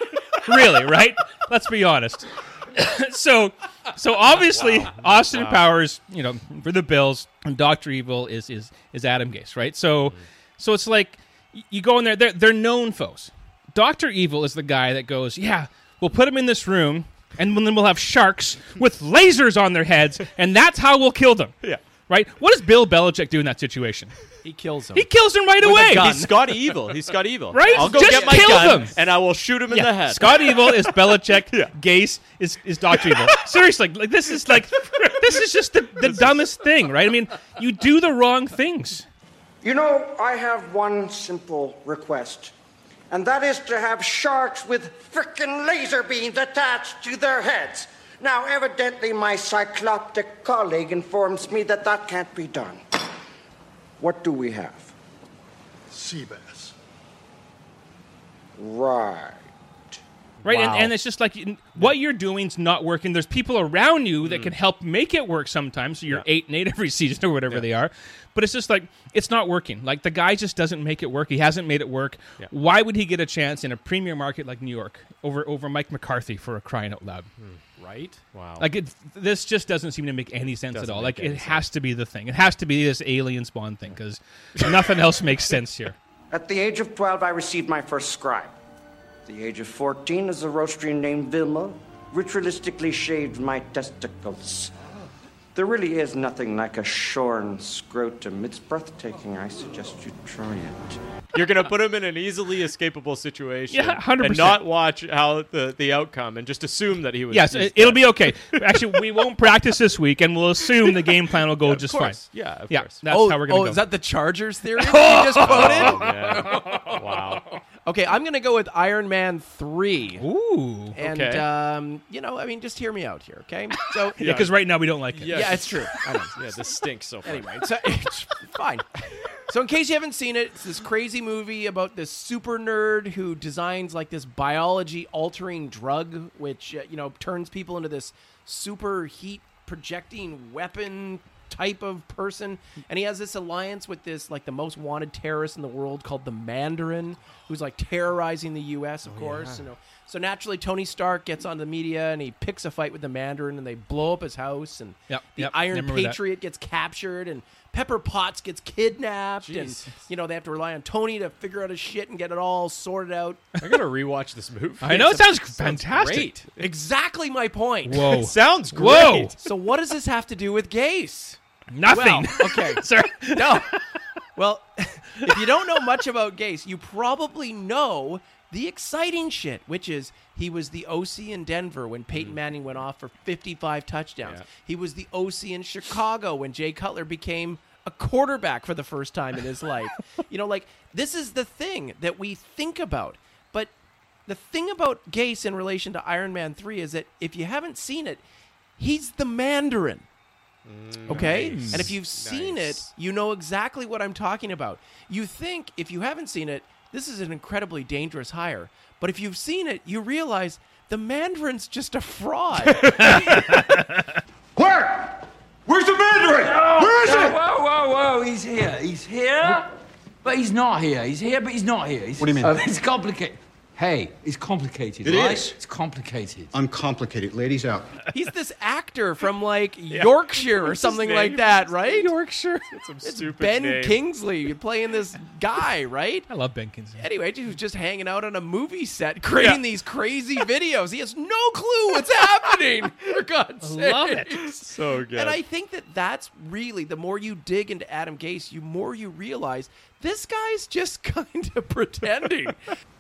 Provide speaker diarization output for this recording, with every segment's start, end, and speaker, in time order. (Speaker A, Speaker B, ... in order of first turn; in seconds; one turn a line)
Speaker A: 0.5-21.5
Speaker B: 4.5-5.7
Speaker A: 22.1-24.1
Speaker C: 24.4-26.3
Speaker A: 24.9-26.3
Speaker B: 25.6-31.8
Speaker A: 27.5-29.0
Speaker C: 27.6-28.8
Speaker A: 29.7-39.0
Speaker B: 32.9-33.4
Speaker B: 36.0-36.4
Speaker D: 39.6-42.5
Speaker D: 43.1-52.8
Speaker D: 54.0-54.9
Speaker E: 55.9-56.7
Speaker D: 58.6-59.5
Speaker B: 60.4-60.9
Speaker A: 60.4-77.3
Speaker B: 64.2-64.5
Speaker C: 77.8-78.2
Speaker B: 78.3-78.7
Speaker A: 78.6-86.0
Speaker B: 80.7-81.7
Speaker D: 86.3-88.6
Speaker D: 89.2-94.7
Speaker D: 95.5-101.0
Speaker B: 101.3-109.0
Speaker A: 103.7-104.6
Speaker A: 107.3-113.9
Speaker B: 111.6-113.0
Speaker C: 113.0-116.8
Speaker A: 114.8-117.0
Speaker B: 115.4-117.5
Speaker C: 117.8-120.3
Speaker A: 120.2-121.0
Speaker C: 121.0-124.3
Speaker B: 121.0-121.5
Speaker A: 124.2-125.9
Speaker B: 124.2-127.6
Speaker C: 125.3-126.4
Speaker C: 127.2-128.9
Speaker C: 129.5-163.5
Speaker B: 149.0-149.7
Speaker A: 155.1-156.2
Speaker B: 159.4-160.0
Speaker B: 163.6-166.7
Speaker A: 164.8-166.3
Speaker C: 166.6-168.1
Speaker A: 167.9-169.3
Speaker B: 167.9-169.4
Speaker C: 169.4-173.7
Speaker A: 171.7-173.8
Speaker C: 174.4-193.7
Speaker B: 182.1-182.4
Speaker C: 194.3-198.2
Speaker C: 198.8-200.1
Speaker B: 200.7-202.9
Speaker C: 201.1-213.5
Speaker A: 201.1-201.9
Speaker B: 212.7-213.2
Speaker E: 214.6-215.1
Speaker E: 215.7-217.4
Speaker F: 216.3-219.7
Speaker F: 220.2-226.5
Speaker E: 222.2-222.7
Speaker E: 225.0-225.6
Speaker E: 226.5-227.9
Speaker C: 228.1-232.1
Speaker B: 229.9-231.8
Speaker A: 231.9-232.7
Speaker B: 232.7-234.0
Speaker C: 233.0-236.3
Speaker A: 236.3-237.0
Speaker C: 237.0-252.6
Speaker B: 239.3-239.6
Speaker A: 243.6-244.5
Speaker B: 244.4-245.4